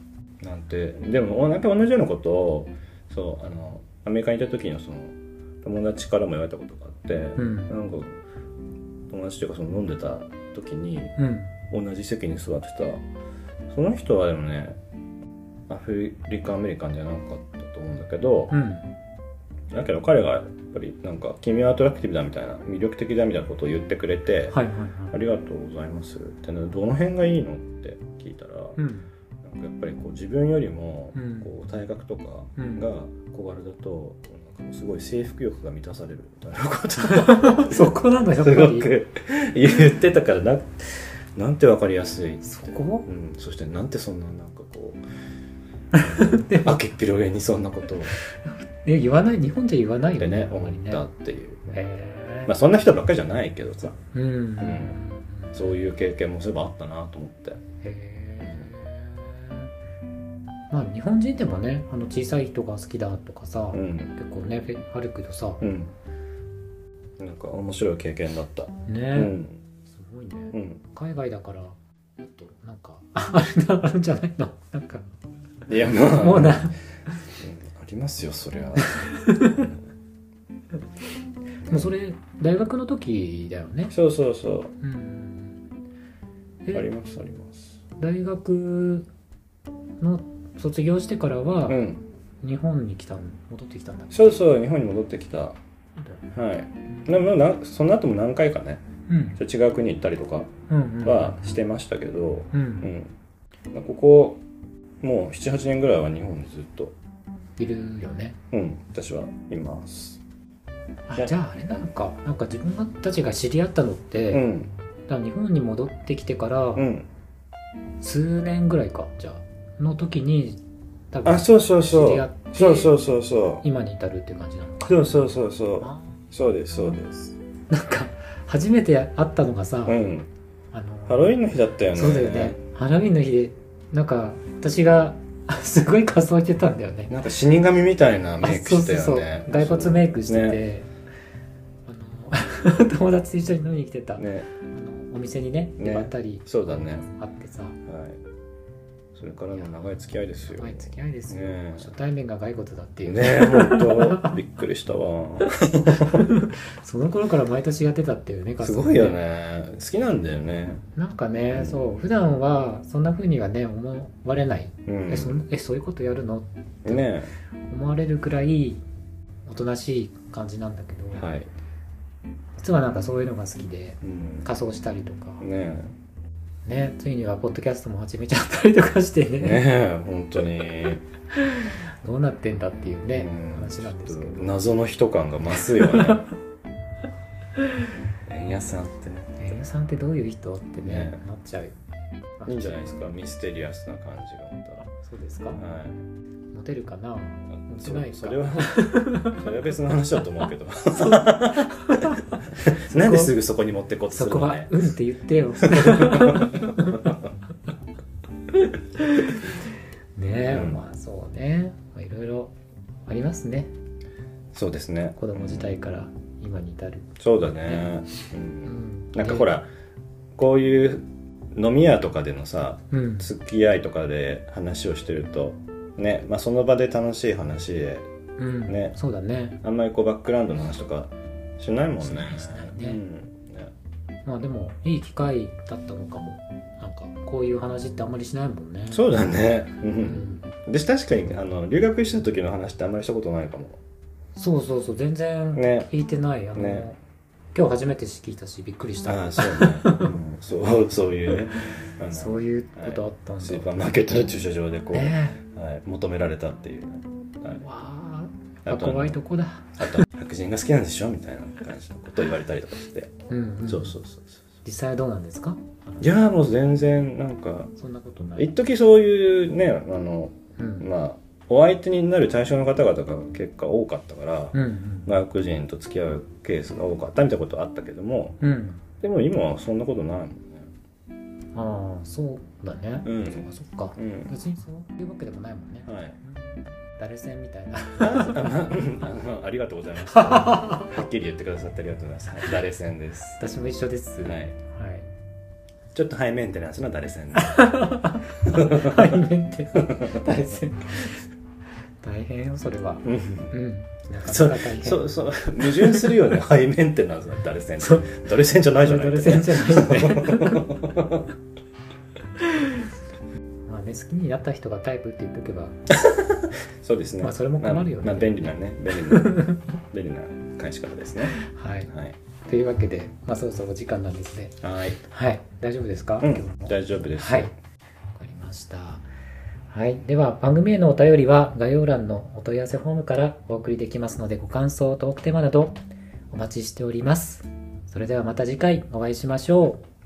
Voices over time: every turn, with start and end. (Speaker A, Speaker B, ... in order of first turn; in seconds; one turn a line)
Speaker A: 0.4-8.2
Speaker B: 7.3-7.7
Speaker A: 9.1-11.2
Speaker B: 11.2-11.5
Speaker A: 11.7-13.0
Speaker A: 13.7-14.8
Speaker A: 15.7-18.5
Speaker B: 18.5-18.9
Speaker A: 19.7-24.6
Speaker B: 24.5-25.2
Speaker A: 25.1-28.8
Speaker B: 28.8-29.1
Speaker A: 29.4-45.0
Speaker B: 31.1-31.5
Speaker B: 32.6-32.9
Speaker B: 37.0-38.9
Speaker B: 42.4-43.1
Speaker B: 45.9-46.7
Speaker A: 46.1-48.1
Speaker B: 48.1-51.0
Speaker A: 50.2-51.7
Speaker B: 51.7-52.5
Speaker A: 52.5-54.0
Speaker B: 54.1-55.6
Speaker A: 54.6-55.0
Speaker A: 55.5-57.6
Speaker B: 57.8-59.7
Speaker A: 58.4-58.7
Speaker B: 60.7-65.6
Speaker A: 63.7-64.2
Speaker A: 65.6-65.9
Speaker A: 67.2-69.6
Speaker B: 68.9-75.0
Speaker A: 70.5-70.8
Speaker A: 75.7-76.7
Speaker B: 75.9-77.2
Speaker A: 77.4-79.8
Speaker B: 78.8-79.7
Speaker A: 81.6-81.9
Speaker B: 81.7-83.9
Speaker A: 83.9-84.7
Speaker B: 84.8-85.6
Speaker B: 86.6-86.9
Speaker A: 86.7-87.8
Speaker B: 88.0-89.1
Speaker B: 90.0-91.8
Speaker A: 91.7-92.0
Speaker B: 92.4-94.4
Speaker A: 94.1-95.6
Speaker A: 96.3-98.8
Speaker B: 99.1-99.4
Speaker A: 99.4-100.5
Speaker B: 100.7-101.4
Speaker A: 101.0-103.1
Speaker B: 102.5-102.9
Speaker A: 103.7-104.4
Speaker A: 105.0-106.9
Speaker B: 107.6-108.4
Speaker A: 108.5-110.2
Speaker B: 111.1-114.4
Speaker A: 111.1-111.8
Speaker A: 114.3-114.7
Speaker B: 115.1-116.9
Speaker A: 116.8-117.1
Speaker B: 118.0-120.6
Speaker B: 121.1-123.0
Speaker A: 121.2-123.6
Speaker B: 123.6-126.3
Speaker A: 124.8-127.3
Speaker B: 127.7-130.0
Speaker A: 129.8-130.3
Speaker B: 130.7-131.4
Speaker A: 131.1-132.6
Speaker B: 131.9-137.1
Speaker A: 137.1-140.6
Speaker B: 138.4-140.9
Speaker B: 141.8-147.8
Speaker A: 144.2-144.5
Speaker A: 145.8-147.0
Speaker A: 147.8-148.2
Speaker A: 149.1-151.9
Speaker B: 149.5-154.4
Speaker A: 153.0-156.3
Speaker B: 155.9-159.2
Speaker A: 158.6-160.8
Speaker B: 160.9-167.1
Speaker A: 161.5-161.8
Speaker A: 164.8-165.4
Speaker A: 166.8-167.3
Speaker B: 167.7-168.8
Speaker B: 169.5-171.3
Speaker A: 171.1-171.5
Speaker B: 172.6-175.4
Speaker A: 174.0-174.5
Speaker A: 175.4-175.9
Speaker B: 176.7-179.6
Speaker A: 179.4-181.0
Speaker B: 181.3-184.6
Speaker A: 183.2-186.3
Speaker B: 185.6-186.2
Speaker A: 188.3-189.4
Speaker B: 189.4-191.7
Speaker A: 190.8-191.2
Speaker B: 192.4-193.0
Speaker A: 192.4-194.8
Speaker B: 194.8-195.6
Speaker A: 195.5-196.0
Speaker B: 196.5-199.5
Speaker A: 197.8-204.9
Speaker B: 201.0-203.3
Speaker B: 204.1-207.2
Speaker A: 205.6-207.2
Speaker B: 208.6-209.5
Speaker B: 210.2-212.5
Speaker A: 210.4-210.8
Speaker B: 213.1-213.7
Speaker A: 214.5-215.7
Speaker B: 215.2-217.1
Speaker A: 217.2-219.7
Speaker B: 217.6-218.0
Speaker B: 218.6-219.5
Speaker A: 220.3-228.1
Speaker B: 222.9-223.3
Speaker B: 228.4-229.6
Speaker A: 228.7-228.9
Speaker A: 229.6-233.7
Speaker B: 232.0-233.0
Speaker B: 234.2-239.1
Speaker A: 238.9-243.8
Speaker B: 239.9-240.5
Speaker B: 244.3-247.0
Speaker A: 245.5-245.9
Speaker A: 246.5-246.9
Speaker B: 247.5-250.2
Speaker A: 249.1-257.6
Speaker B: 251.3-253.9
Speaker B: 254.9-255.4
Speaker B: 257.6-260.0
Speaker A: 258.6-259.2
Speaker A: 259.8-263.1
Speaker B: 263.3-264.0
Speaker A: 263.6-264.3
Speaker B: 264.6-266.1
Speaker A: 266.0-267.7
Speaker B: 267.8-268.5
Speaker A: 268.4-278.4
Speaker B: 270.6-270.9
Speaker B: 274.5-275.1
Speaker B: 278.4-278.8
Speaker A: 279.0-280.7
Speaker B: 281.5-288.7
Speaker A: 283.0-284.3
Speaker A: 285.9-286.2
Speaker A: 288.0-293.4
Speaker B: 290.0-290.8
Speaker B: 293.4-295.1
Speaker A: 294.2-294.6
Speaker A: 295.9-297.8
Speaker B: 297.3-301.2
Speaker A: 298.4-299.2
Speaker A: 299.9-300.2
Speaker B: 302.0-306.3
Speaker A: 303.0-303.6
Speaker A: 304.2-311.3
Speaker B: 307.8-308.1
Speaker B: 308.8-310.8
Speaker B: 312.4-312.9
Speaker B: 313.7-315.8
Speaker A: 316.0-319.4
Speaker B: 317.2-318.5
Speaker B: 319.1-319.6
Speaker A: 319.9-322.1
Speaker B: 321.3-321.9
Speaker B: 322.4-324.6
Speaker A: 324.6-325.0
Speaker B: 325.1-327.5
Speaker A: 326.2-327.5
Speaker B: 328.1-329.0
Speaker B: 329.7-335.8
Speaker B: 336.3-339.9